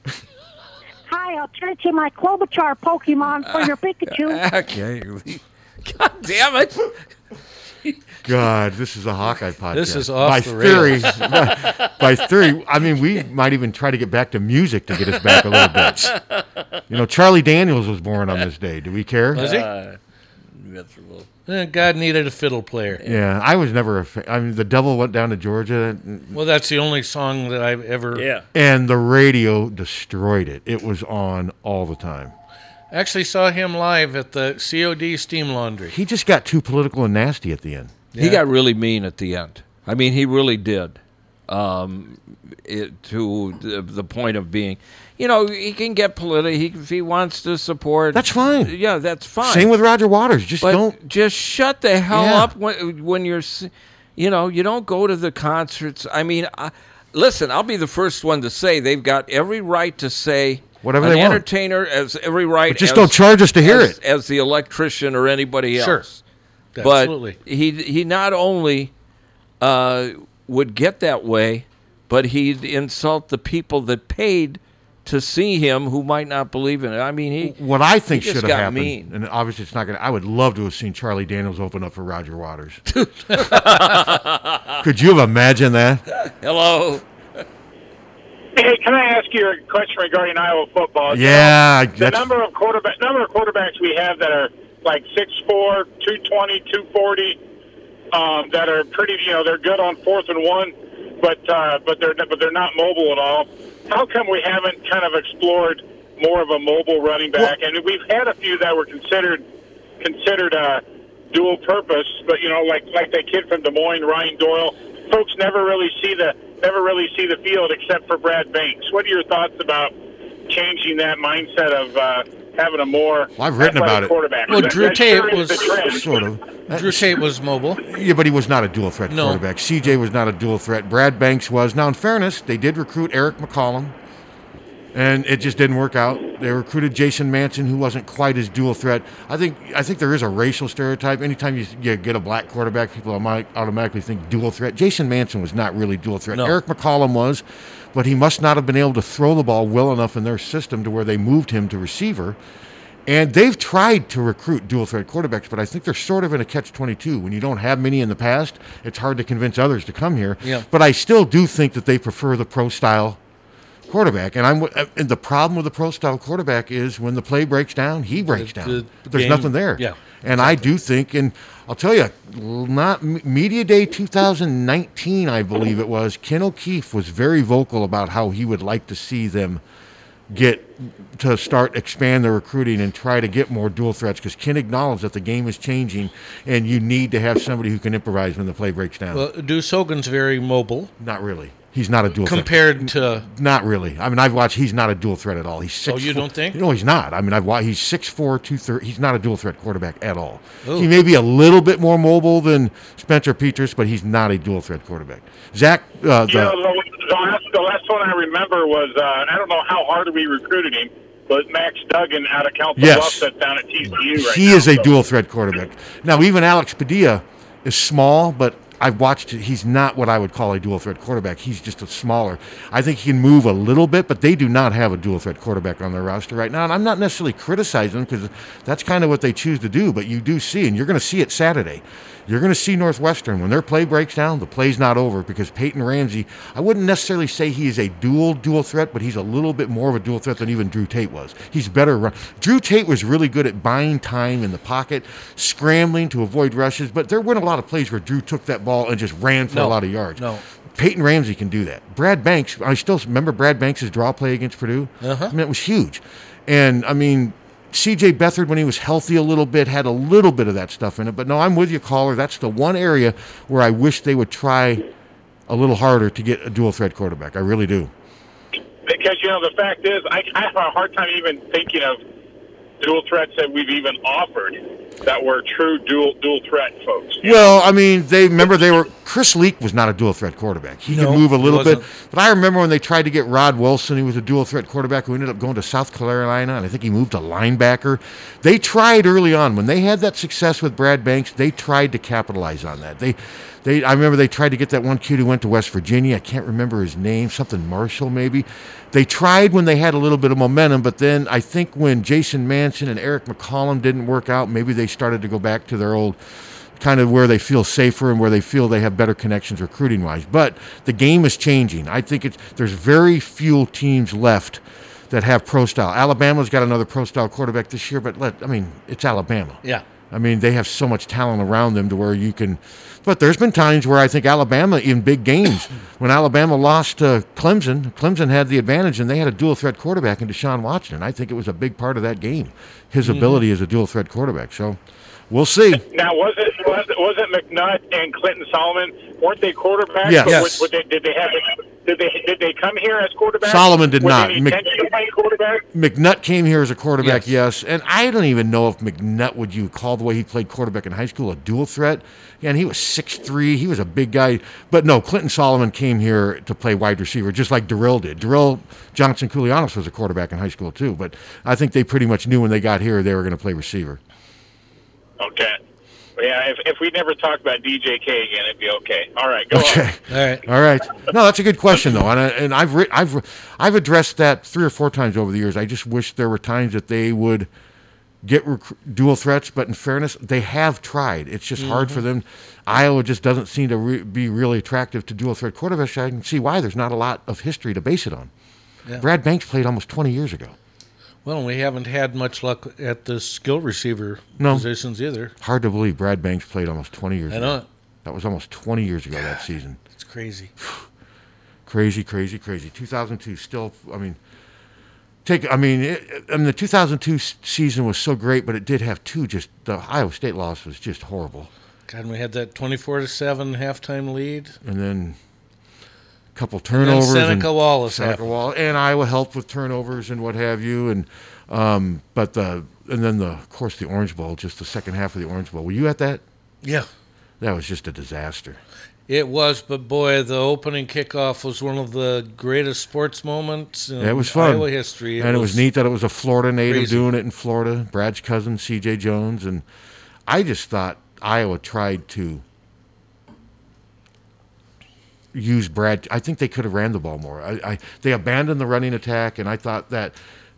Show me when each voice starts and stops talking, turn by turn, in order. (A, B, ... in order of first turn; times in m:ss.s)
0:01.1-0:04.4 A
0:03.4-0:07.0 B
0:08.2-0:16.1 C
0:09.7-0:11.0 D
0:11.1-0:11.9 B
0:15.1-0:16.6 B
0:16.9-0:19.5 C
0:19.3-0:20.0 B
0:19.3-0:19.7 D
0:20.5-0:21.3 B
0:21.5-0:23.0 D
0:23.0-0:26.4 C
0:26.3-0:28.2 D
0:28.1-0:28.4 B
0:28.5-0:32.3 C
0:32.9-0:36.0 D
0:35.9-0:37.9 C
0:38.1-0:38.4 D
0:38.2-0:49.7 B
0:48.1-0:48.7 C
0:49.4-0:50.9 C
0:50.6-1:06.2 B
0:52.1-0:52.5 C
1:00.8-1:01.4 C
1:02.7-1:04.0 C
1:05.8-1:06.0 D
1:06.8-1:07.4 D
1:06.8-1:08.9 B
1:09.6-1:17.6 B
1:17.4-1:22.8 C
1:18.1-1:19.1 B
1:22.9-1:24.8 B
1:24.8-1:26.0 C
1:26.2-1:27.0 B
1:28.6-1:37.4 E
1:31.1-1:32.3 C
1:38.1-1:49.4 E
1:50.0-1:59.9 E
2:00.5-2:06.1 E
2:03.4-2:04.1 C
2:04.5-2:05.7 D
2:05.7-2:07.2 C
2:06.7-2:07.8 D
2:07.8-2:13.9 C
2:09.1-2:09.4 D
2:14.9-2:32.4 C
2:26.3-2:26.6 D
2:33.0-2:43.2 C
2:43.9-2:59.6 C
2:48.2-2:50.6 D
3:00.3-3:09.2 C
3:09.1-3:10.9 D
3:11.0-3:26.6 C
3:12.2-3:13.3 D
3:15.8-3:16.6 D
3:20.6-3:20.9 D
3:26.3-3:34.9 E
3:32.8-3:33.3 C
3:33.9-4:24.9 C
4:09.5-4:10.4 D
4:15.0-4:15.3 D
4:25.5-4:27.9 C
4:28.8-4:32.0 E
4:32.8-4:37.4 E
4:37.2-5:06.2 C
4:40.9-4:41.8 D
5:06.8-5:34.8 C
5:33.0-5:33.4 D
5:35.3-5:35.8 C
5:35.9-5:45.6 E
5:40.0-5:40.6 C
5:40.2-5:40.6 D
5:43.4-5:44.6 C
5:45.7-6:04.0 C
5:47.0-5:47.3 D
6:05.2-6:05.6 E
6:06.2-6:09.8 E
6:09.5-6:17.5 C
6:10.1-6:10.4 D
6:18.2-6:28.3 C
6:21.6-6:22.0 D
6:29.0-6:30.6 C
6:31.2-6:35.3 D
6:34.4-6:34.7 C
6:35.4-6:39.8 C
6:37.3-6:37.6 D
6:39.1-6:40.5 D
6:40.6-6:40.9 C
6:41.6-6:44.2 C
6:45.2-6:51.5 C
6:51.9-6:54.6 D
6:54.6-6:55.2 C
6:56.3-7:06.2 C
6:56.7-6:58.3 D
7:07.4-7:08.6 C
7:09.1-7:15.6 D
7:14.0-7:19.6 C
7:16.6-7:17.1 D
7:20.3-7:22.4 C
7:25.3-7:30.2 C